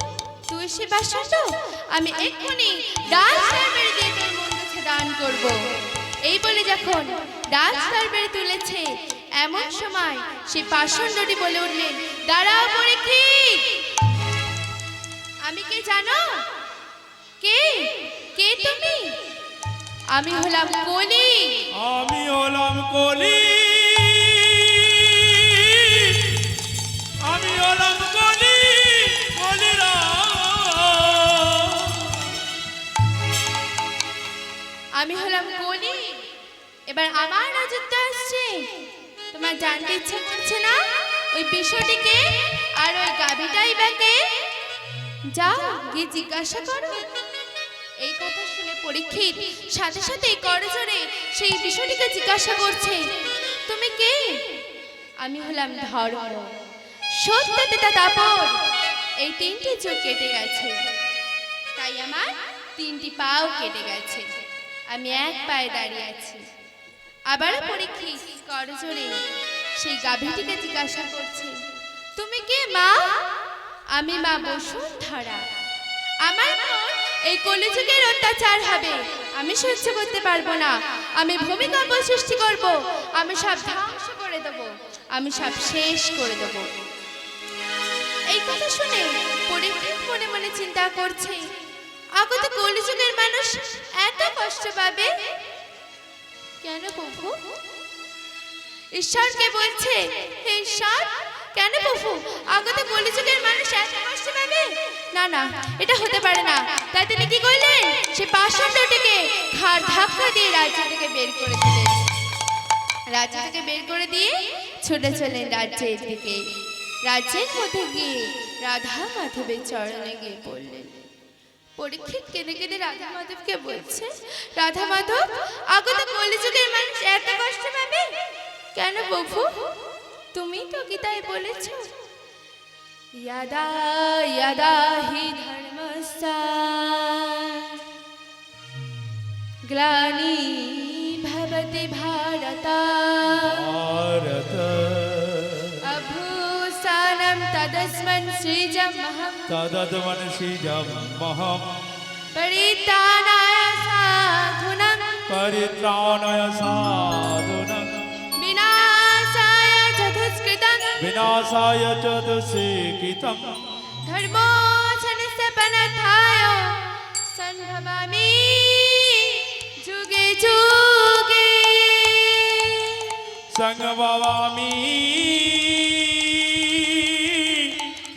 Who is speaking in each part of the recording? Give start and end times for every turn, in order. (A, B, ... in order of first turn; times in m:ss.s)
0:00.5-0:05.6 A
0:06.2-0:13.8 A
0:15.4-0:16.2 A
0:17.4-0:19.2 A
0:20.1-0:21.7 A
0:21.7-0:26.5 B
0:27.2-0:32.2 B
0:35.0-0:36.2 A
0:36.9-0:38.7 A
0:39.3-0:40.8 A
0:41.3-0:44.2 A
0:45.3-0:47.1 A
0:48.0-0:53.1 A
0:53.7-0:54.6 A
0:55.2-0:56.5 A
0:57.2-0:58.6 A
0:59.2-1:00.8 A
1:01.7-1:04.3 A
1:04.9-1:06.4 A
1:07.3-1:09.2 A
1:09.8-1:11.5 A
1:12.2-1:13.2 A
1:13.9-1:15.4 A
1:16.2-1:26.7 A
1:28.3-1:31.4 A
1:32.2-1:35.1 A
1:36.6-1:37.4 A
1:38.9-1:52.0 A
1:53.1-1:56.4 A
1:57.0-2:01.0 A
2:01.8-2:08.1 A
2:08.7-2:09.7 A
2:10.3-2:11.9 A
2:13.2-2:17.9 A
2:19.7-2:23.6 A
2:23.4-2:25.8 B
2:25.8-2:29.5 A
2:29.5-2:31.7 B
2:32.3-2:35.2 A
2:35.3-2:38.0 B
2:38.3-2:41.0 A
2:41.0-2:43.7 B
2:44.0-2:53.2 A
2:53.5-2:58.0 B